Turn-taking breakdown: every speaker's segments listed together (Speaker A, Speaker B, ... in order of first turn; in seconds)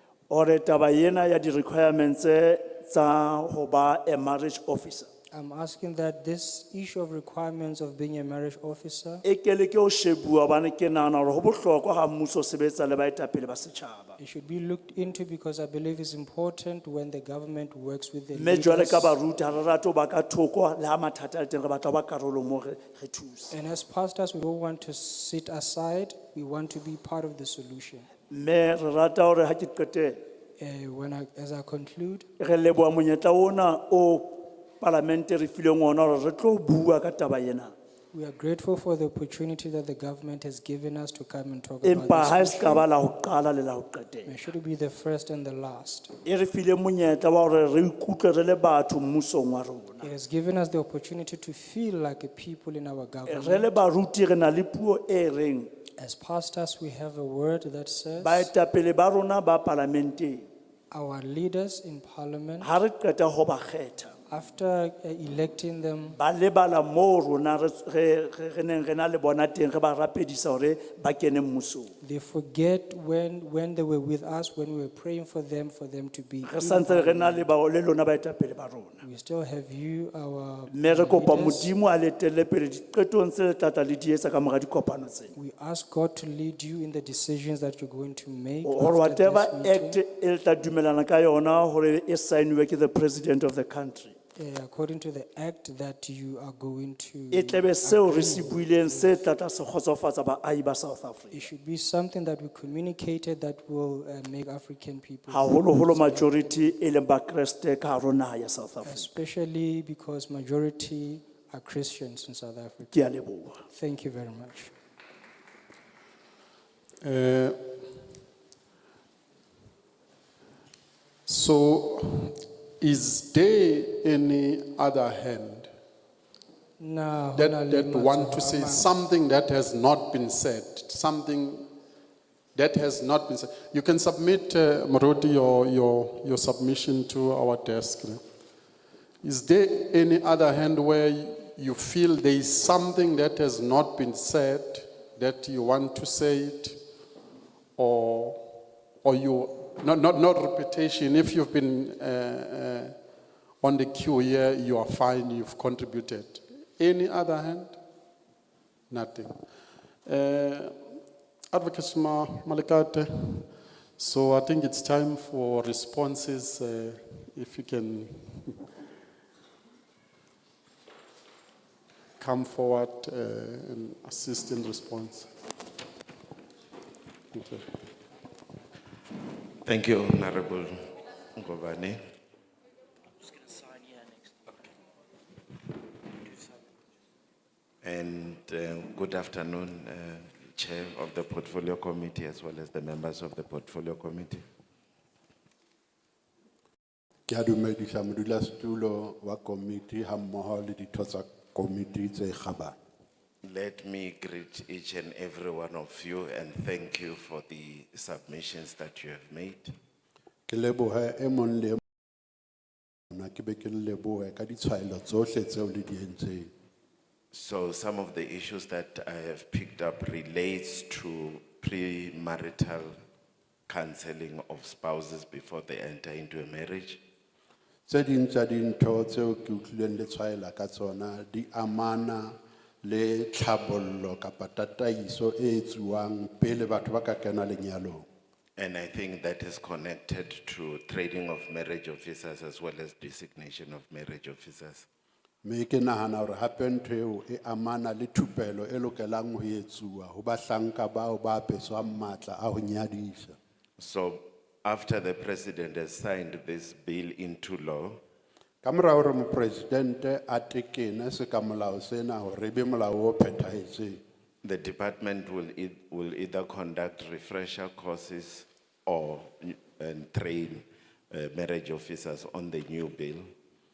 Speaker A: 0.3-5.1, 9.2-14.2, 18.3-23.5, 28.3-30.2, 32.4-37.7, 41.8-44.3, 46.2-50.1, 53.3-55.7, 58.2-60.5, 62.6-64.2, 66.2-71.9, 76.4-79.0, 80.7-85.3, 88.6-94.2, 97.3-101.4, 105.3-109.1, 112.9-113.6
Speaker B: 5.3-9.2, 14.2-19.1, 23.5-28.1, 30.6-32.2, 38.1-42.8, 44.2-46.1, 50.0-53.7, 56.0-58.5, 60.9-62.7, 64.3-66.2, 72.0-77.5, 79.0-81.7, 85.3-90.0, 94.3-99.2, 101.3-106.7, 108.8-113.0, 113.7-114.7, 126.8-128.9
Speaker C: 117.0-118.0, 121.3-125.7, 127.3-131.7, 132.5-138.2, 139.2-146.8, 147.8-148.5, 149.0-152.9, 153.6-157.8, 158.9-159.4, 160.0-160.8, 161.5-168.6, 172.2-175.3, 177.3-177.6
Speaker D: 179.6-182.0, 187.8-194.4, 203.4-209.7, 217.3-222.9, 223.7-227.0, 238.6-244.8, 253.8-258.0, 264.4-273.3
Speaker E: 197.3-202.7, 210.5-211.8, 213.1-216.5, 227.9-238.1, 245.4-253.3, 258.6-264.0